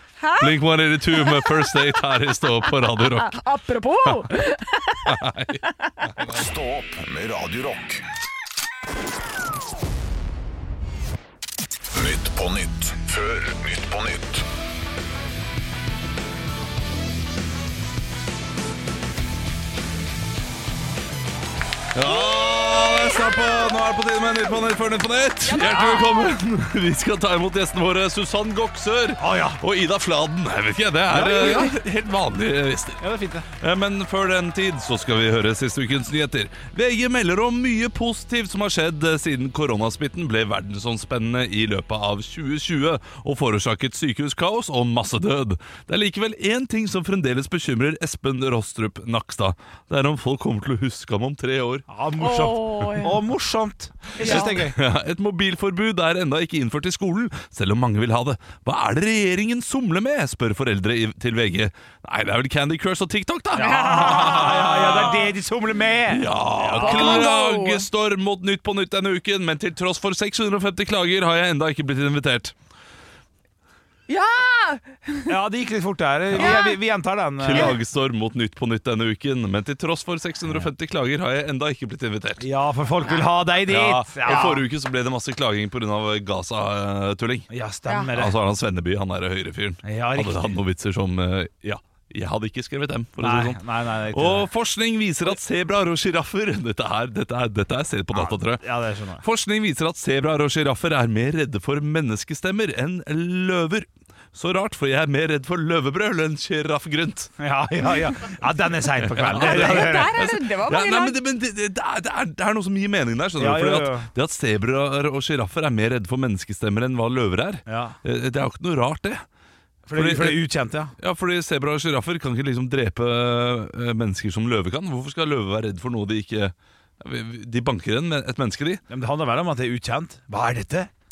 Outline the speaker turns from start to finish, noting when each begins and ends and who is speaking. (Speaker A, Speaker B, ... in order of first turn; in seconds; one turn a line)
Speaker A: 0.2-5.3
Speaker B: 0.3-3.4
Speaker B: 5.1-5.6
Speaker B: 6.2-6.4
Speaker C: 6.2-8.0
Speaker C: 11.9-14.4
Speaker B: 21.9-33.0
Speaker A: 22.1-23.7
Speaker A: 25.5-26.2
Speaker D: 29.2-29.6
Speaker D: 31.1-31.8
Speaker D: 33.0-33.5
Speaker B: 33.6-51.9
Speaker D: 51.9-54.8
Speaker A: 52.2-53.2
Speaker B: 54.2-65.2
Speaker A: 54.2-54.6
Speaker D: 63.5-67.3
Speaker A: 63.6-65.3
Speaker B: 66.1-72.5
Speaker A: 66.8-67.9
Speaker A: 74.1-75.3
Speaker D: 75.3-77.8
Speaker A: 76.4-76.8
Speaker B: 77.4-82.5
Speaker D: 82.4-84.6
Speaker B: 83.7-87.5
Speaker A: 84.3-84.5
Speaker D: 87.5-88.4
Speaker A: 87.9-88.1
Speaker B: 88.1-98.6
Speaker D: 89.8-90.6
Speaker D: 93.2-94.5
Speaker D: 98.1-99.2
Speaker B: 99.2-107.3
Speaker D: 107.4-110.1
Speaker B: 109.0-119.2
Speaker A: 109.3-111.2
Speaker D: 113.4-114.1
Speaker D: 117.7-118.0
Speaker D: 119.9-120.9
Speaker B: 119.9-120.4
Speaker B: 121.0-128.8
Speaker D: 128.9-130.9